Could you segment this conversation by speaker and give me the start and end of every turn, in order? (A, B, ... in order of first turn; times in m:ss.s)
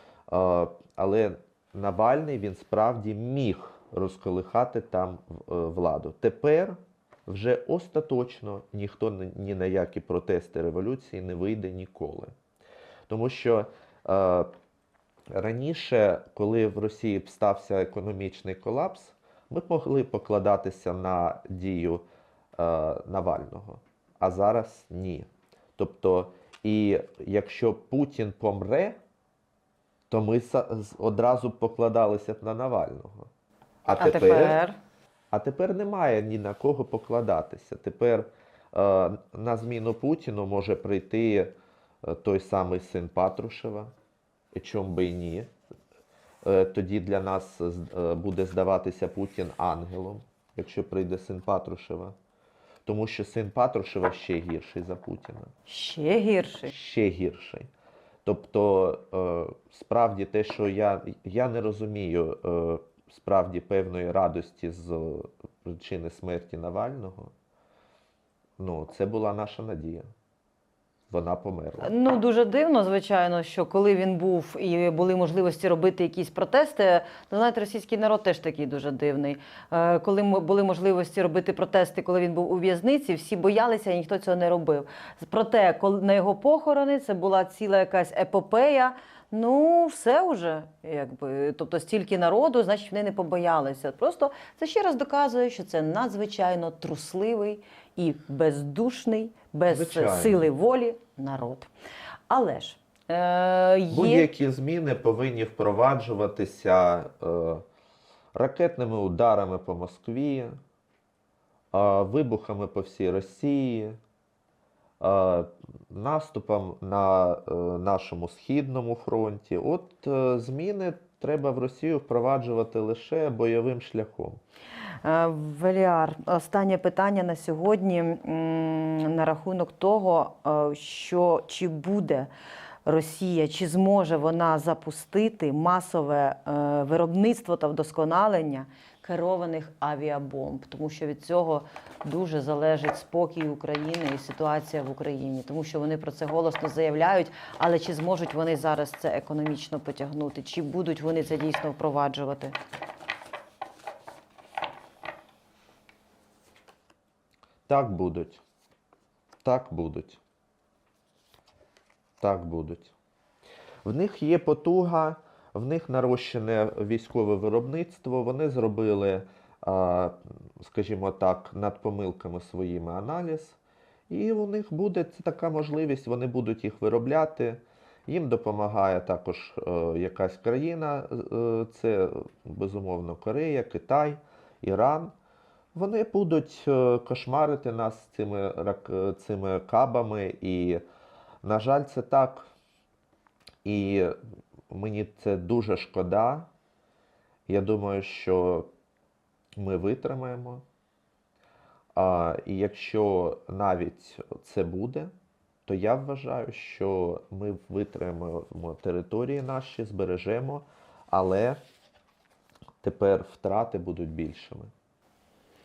0:00.3-0:12.3 A
0:13.1-0:14.5 A
0:15.3-0:22.0 A
0:22.6-0:29.0 A
0:30.1-0:33.3 A
0:33.8-0:34.6 A
0:34.0-0:34.8 B
0:35.3-0:41.5 A
0:42.0-0:43.9 A
0:44.5-0:45.5 A
0:46.4-0:52.1 A
0:52.8-0:55.5 A
0:55.7-0:56.7 B
0:56.7-0:57.7 A
0:58.2-1:07.3 A
1:08.6-1:10.0 A
1:11.1-1:11.9 A
1:11.8-1:41.7 B
1:39.7-1:40.5 A
1:42.3-1:44.3 B
1:43.9-1:47.6 A
1:48.3-1:50.6 A
1:51.7-1:54.0 A
1:55.0-2:04.4 A
2:05.0-2:12.3 B
2:12.8-2:32.6 B
2:37.7-2:38.4 A
2:39.4-2:40.2 A
2:42.2-2:42.9 A
2:43.8-2:53.6 A
2:54.1-3:05.1 A
3:05.7-3:10.8 A
3:11.4-3:12.5 A
3:13.6-3:14.1 A
3:14.7-3:16.5 A
3:17.5-3:18.7 A
3:19.6-3:20.6 A
3:21.9-3:25.1 A
3:25.6-3:31.6 A
3:32.8-3:34.7 A